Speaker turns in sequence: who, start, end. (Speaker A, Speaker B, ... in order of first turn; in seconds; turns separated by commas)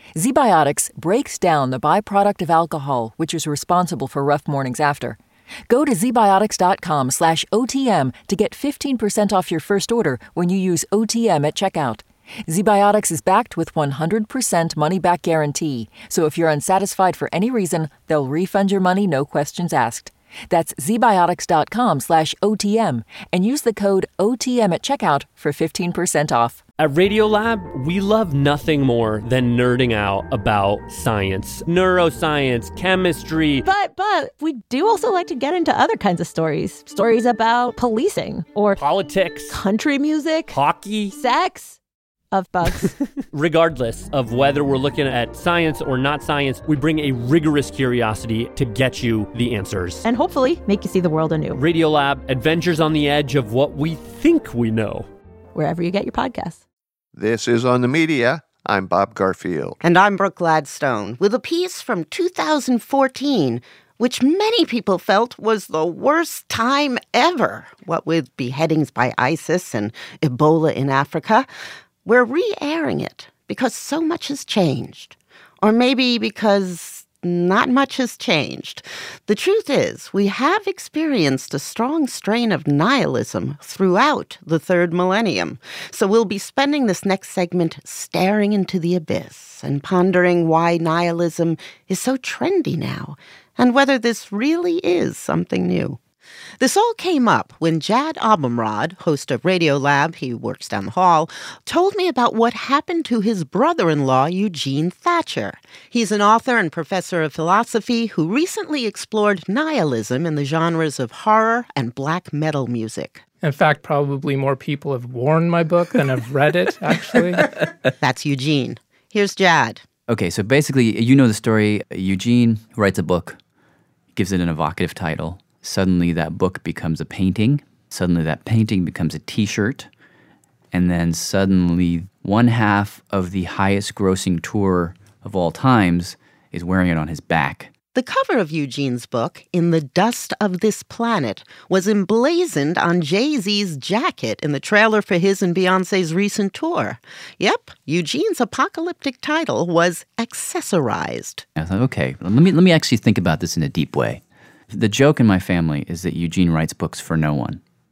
Speaker A: 0.1-5.2, Speaker A: 5.7-26.6, Speaker B: 26.8-33.6, Speaker C: 33.6-38.8, Speaker B: 38.8-39.6, Speaker C: 39.5-40.6, Speaker B: 40.5-41.2, Speaker C: 41.1-41.8, Speaker C: 42.3-43.0, Speaker B: 43.3-50.0, Speaker C: 50.0-51.6, Speaker B: 51.5-55.1, Speaker C: 55.5-56.6, Speaker D: 57.1-59.8, Speaker E: 59.8-71.5, Speaker E: 72.0-96.0, Speaker E: 96.6-113.2, Speaker F: 113.4-117.5, Speaker E: 118.0-119.8, Speaker G: 120.1-123.4, Speaker G: 124.1-129.9, Speaker G: 130.7-137.7, Speaker E: 137.9-151.4, Speaker G: 151.6-157.6